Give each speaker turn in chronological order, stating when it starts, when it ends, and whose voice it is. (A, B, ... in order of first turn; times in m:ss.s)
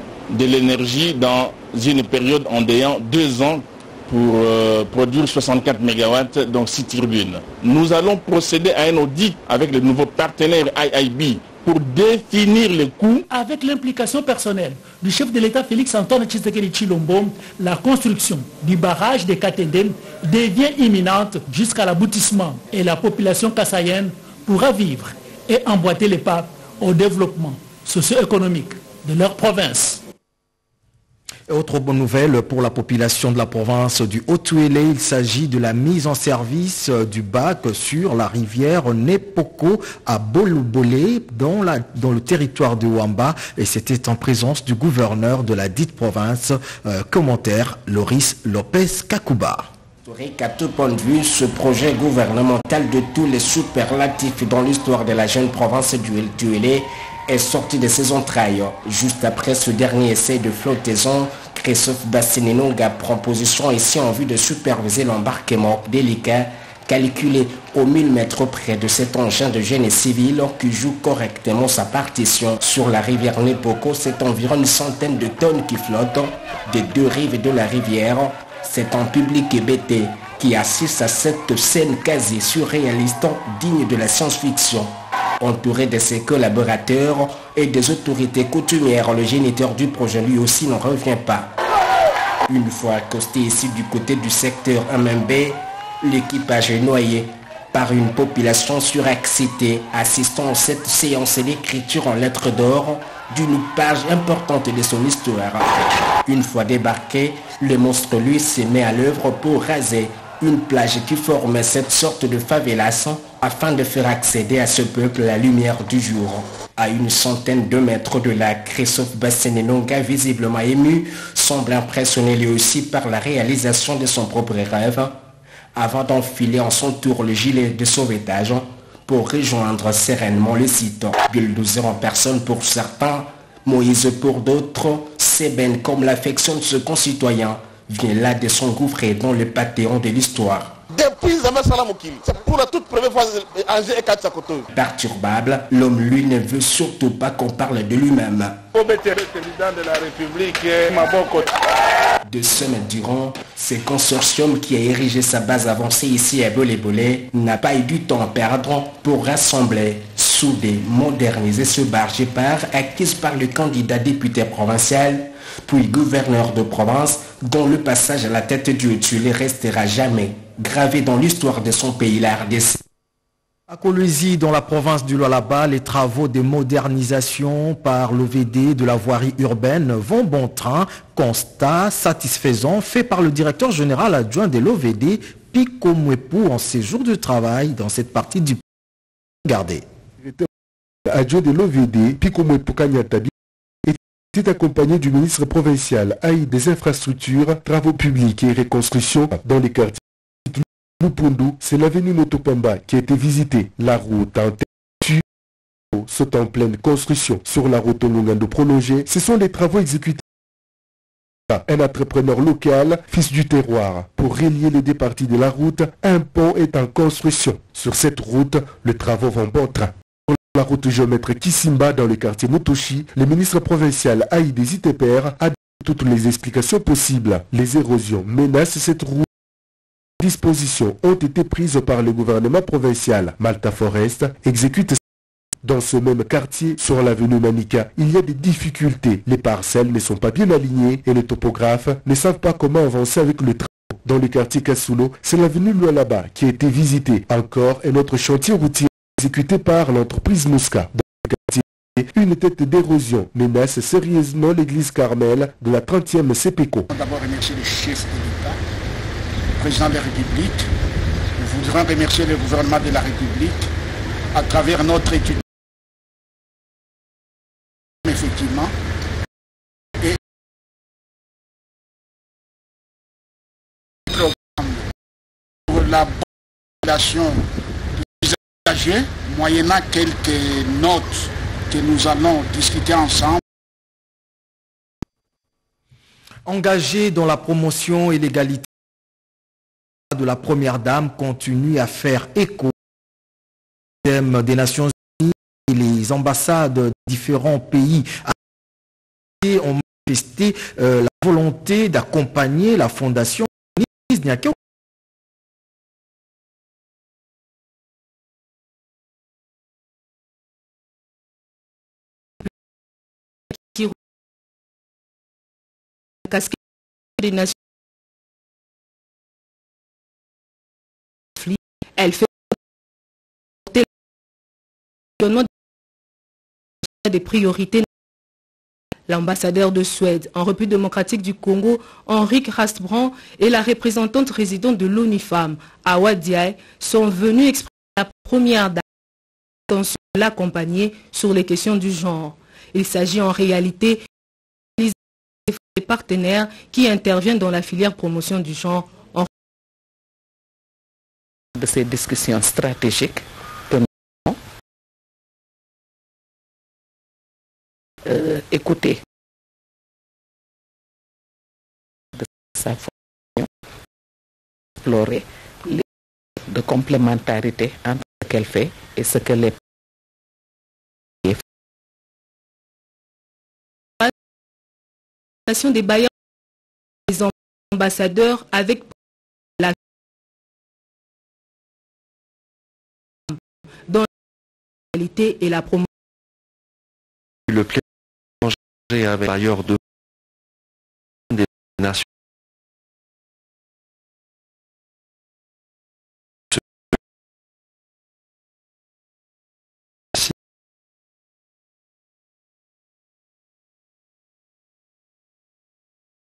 0:00.3-0:13.2 A
0:13.3-0:30.0 B
0:31.5-0:49.7 C
0:50.0-1:31.5 D
1:32.5-2:05.2 D
2:05.8-2:20.8 D
2:20.9-2:24.6 E
2:24.7-2:28.6 D
2:28.8-2:31.4 E
2:32.2-2:52.8 D
2:53.7-3:08.6 C
3:09.4-3:09.8 C
3:10.2-3:10.5 F
3:11.1-3:13.3 F
3:13.8-3:25.2 F
3:25.9-3:30.2 F
3:31.5-3:49.3 F
3:50.2-3:55.0 F
3:55.6-4:16.9 F
4:16.9-4:18.6 G
4:19.6-4:20.7 G
4:21.4-4:23.7 G
4:24.3-4:25.4 G
4:28.0-4:28.7 G
4:34.1-4:34.8 G
4:35.7-4:36.2 G
4:36.8-4:37.4 G
4:38.0-4:43.4 G
4:46.4-4:48.6 C
4:50.1-4:52.7 C
4:54.0-4:58.3 C
4:59.4-5:04.6 C
5:16.3-5:16.6 H
5:17.2-5:17.5 H
5:21.4-5:22.3 H
5:25.2-5:25.5 H
5:27.0-5:27.8 H
5:29.1-5:38.8 H
5:39.7-5:44.0 H
5:45.5-5:49.3 H
5:51.5-5:54.4 I
5:58.0-5:59.0 I
6:02.2-6:03.5 I
6:04.8-6:05.8 I
6:06.5-6:09.6 I
6:15.5-6:16.1 H
6:17.1-6:18.9 H
6:24.9-6:25.9 H
6:27.5-6:27.8 J
6:28.4-6:29.8 J
6:31.3-6:32.0 J